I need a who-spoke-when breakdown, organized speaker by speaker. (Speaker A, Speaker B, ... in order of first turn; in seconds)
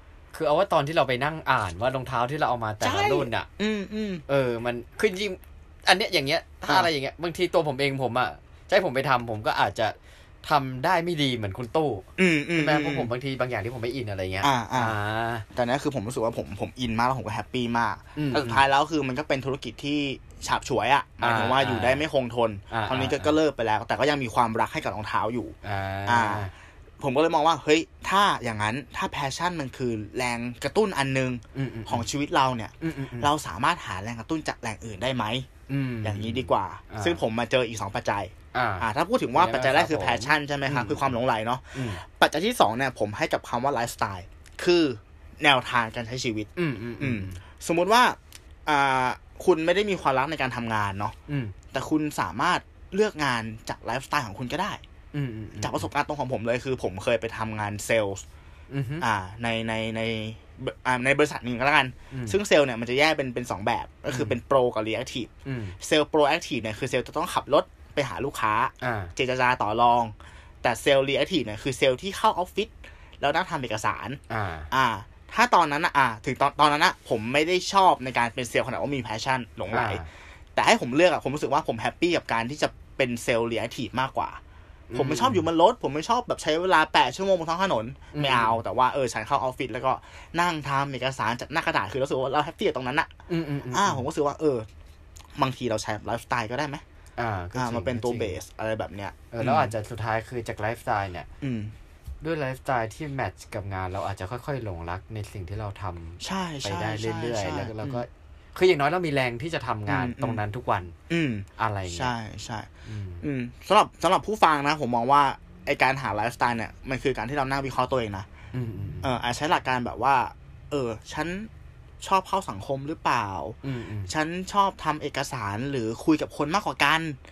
Speaker A: 0.3-3.5, 4.3-15.5, 18.2-18.6, 21.2-22.0, 22.7-23.4, 25.6-26.5, 31.5-32.1, 32.8-33.3, 35.7-37.2, 38.5-41.1, 41.7-42.0, 46.6-47.4, 51.3-51.5, 55.1-55.9, 58.7-59.1, 62.1-62.4, 64.1-64.4, 65.5-65.8, 68.8-69.1, 74.3-74.7, 79.7-80.1, 84.9-85.5, 88.1-88.6, 93.3-94.1, 97.2-98.4, 99.3-101.3, 102.2-111.0, 111.6-112.1, 112.9-113.3, 118.5-119.1, 123.6-124.1
Speaker B: 2.8-4.2, 12.2-13.1, 14.4-14.9, 15.6-25.6, 26.1-35.5, 36.0-51.1, 51.7-54.8, 55.6-58.2, 59.0-74.2, 74.7-80.0, 80.5-84.4, 85.0-93.1, 93.7-94.7, 95.4-96.8, 97.5-99.7, 101.4-101.7, 106.2-108.0, 109.9-110.4, 111.1-112.7, 113.2-118.3, 119.0-121.5, 122.0-123.6, 124.1-127.2